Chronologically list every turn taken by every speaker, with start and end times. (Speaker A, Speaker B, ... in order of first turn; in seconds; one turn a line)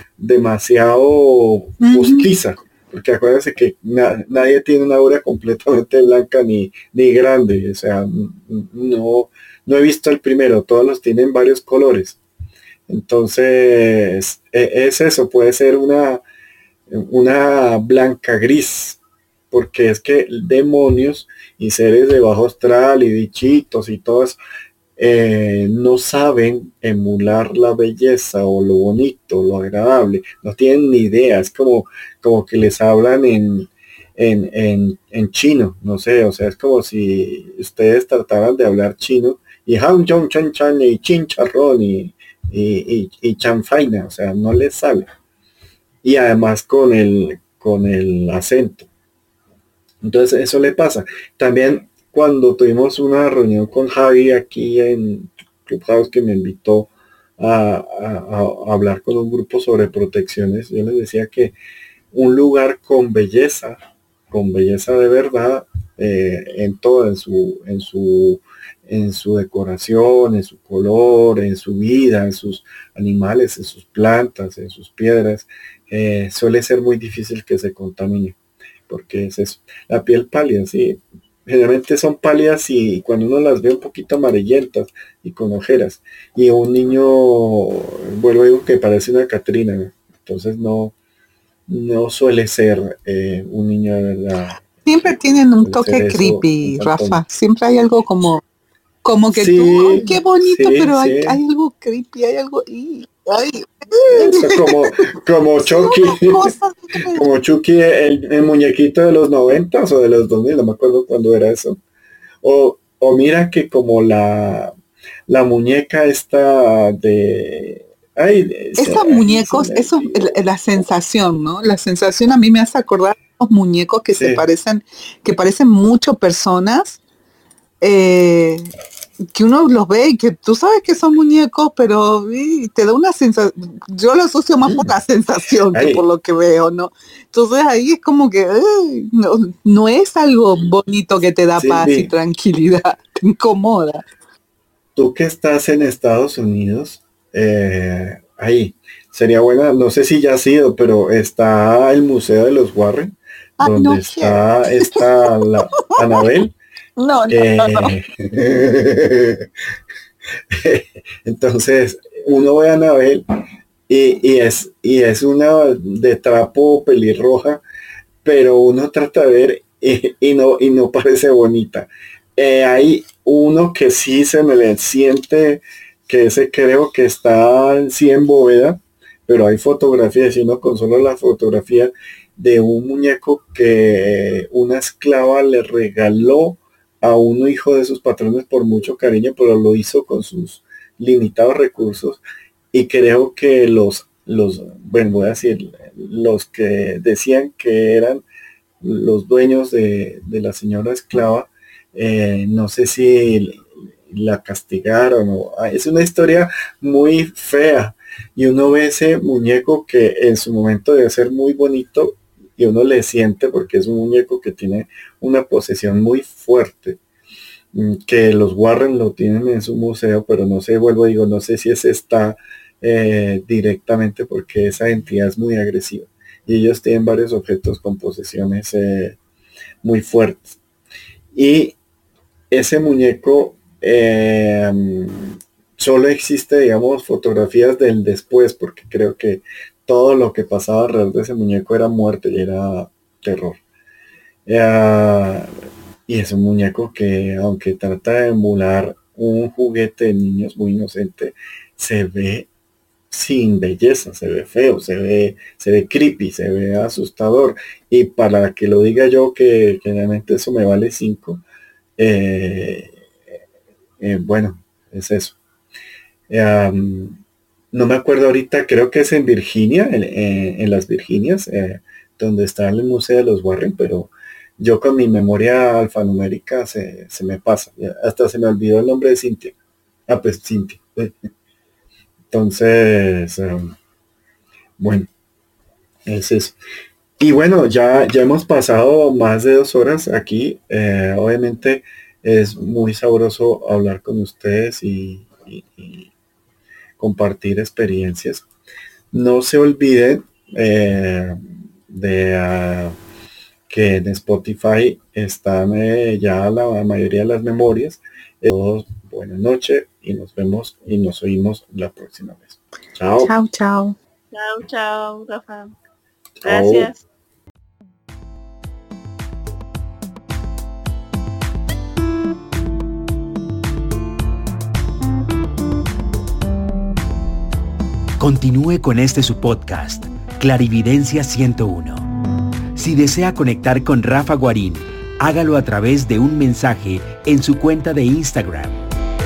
Speaker A: 0.2-12.2
Speaker B: 1.8-2.3
Speaker A: 12.9-16.2
Speaker A: 16.9-19.0
Speaker A: 19.5-24.4
Speaker A: 25.0-45.1
Speaker A: 46.0-48.9
Speaker A: 50.0-61.5
Speaker A: 62.1-63.8
Speaker A: 64.3-78.4
Speaker A: 78.9-90.9
Speaker A: 91.7-94.6
Speaker B: 94.8-98.4
Speaker A: 95.6-97.2
Speaker B: 99.0-104.8
Speaker A: 99.3-101.4
Speaker A: 104.1-106.5
Speaker B: 105.6-107.2
Speaker A: 107.1-111.8
Speaker A: 112.4-114.7
Speaker A: 115.3-120.3
Speaker B: 118.8-127.0
Speaker A: 124.1-124.4
Speaker B: 127.8-128.7
Speaker B: 129.3-144.0
Speaker A: 134.6-134.9
Speaker A: 135.7-136.0
Speaker A: 141.6-142.1
Speaker A: 144.9-156.5
Speaker B: 153.6-155.0
Speaker B: 157.0-157.9
Speaker A: 157.3-159.5
Speaker A: 160.5-163.2
Speaker A: 163.9-167.6
Speaker A: 168.2-192.2
Speaker A: 192.7-198.2
Speaker A: 198.8-217.0
Speaker A: 217.7-229.2
Speaker A: 229.8-230.6
Speaker A: 231.3-231.8
Speaker A: 232.5-243.6
Speaker A: 244.4-245.5
Speaker A: 246.1-252.5
Speaker A: 253.1-261.4
Speaker A: 262.0-262.9
Speaker A: 264.0-265.4
Speaker A: 266.3-267.2
Speaker A: 267.7-279.5
Speaker A: 280.1-281.1
Speaker A: 282.3-283.7
Speaker A: 284.8-285.1
Speaker A: 286.1-286.6
Speaker A: 287.2-296.1
Speaker A: 297.0-298.4
Speaker A: 299.1-303.0
Speaker A: 303.7-313.3
Speaker B: 313.2-314.0
Speaker C: 314.3-315.7
Speaker A: 316.4-316.9
Speaker C: 316.4-317.0
Speaker D: 328.2-332.1
Speaker D: 332.7-338.8